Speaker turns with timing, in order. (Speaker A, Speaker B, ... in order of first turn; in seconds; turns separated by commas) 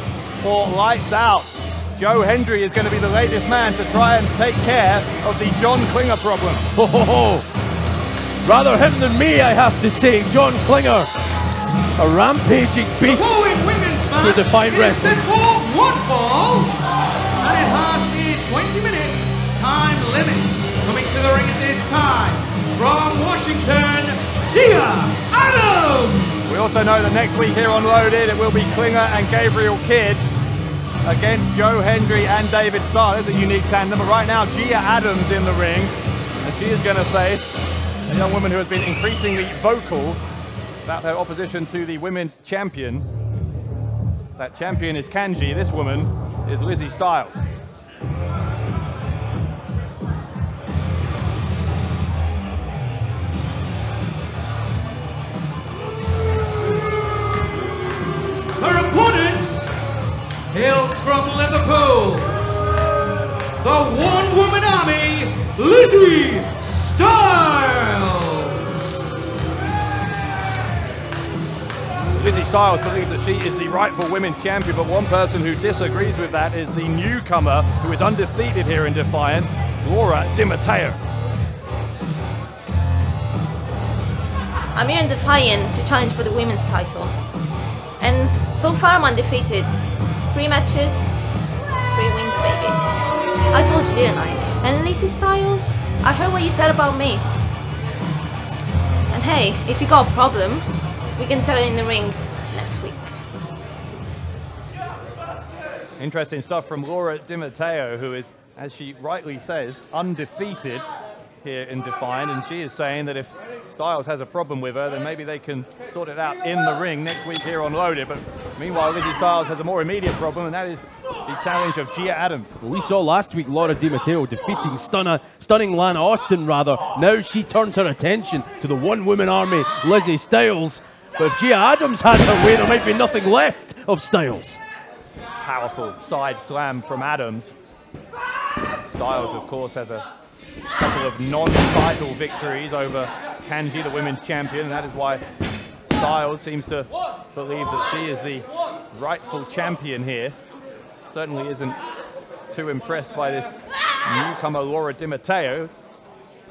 Speaker A: 0.4-6.7, Speaker B: 6.8-7.5, Speaker B: 8.4-11.1, Speaker B: 12.0-13.4, Speaker C: 13.1-16.8, Speaker B: 14.2-15.2, Speaker C: 17.4-26.4, Speaker A: 26.4-30.2, Speaker A: 31.0-37.5, Speaker A: 38.1-40.2, Speaker A: 40.9-43.0, Speaker A: 44.4-47.4, Speaker C: 58.6-59.7, Speaker C: 60.5-62.3, Speaker C: 63.6-68.6, Speaker A: 72.1-81.0, Speaker D: 84.7-87.1, Speaker D: 88.0-89.8, Speaker D: 90.3-91.1, Speaker D: 91.8-92.8, Speaker D: 93.5-97.2, Speaker D: 99.1-103.1, Speaker A: 106.0-110.8, Speaker A: 111.4-122.6, Speaker B: 122.6-134.6, Speaker A: 135.4-137.5, Speaker A: 138.8-140.0, Speaker A: 140.8-145.2, Speaker A: 145.9-150.3, Speaker A: 151.1-151.8, Speaker A: 152.5-153.5, Speaker A: 154.0-155.7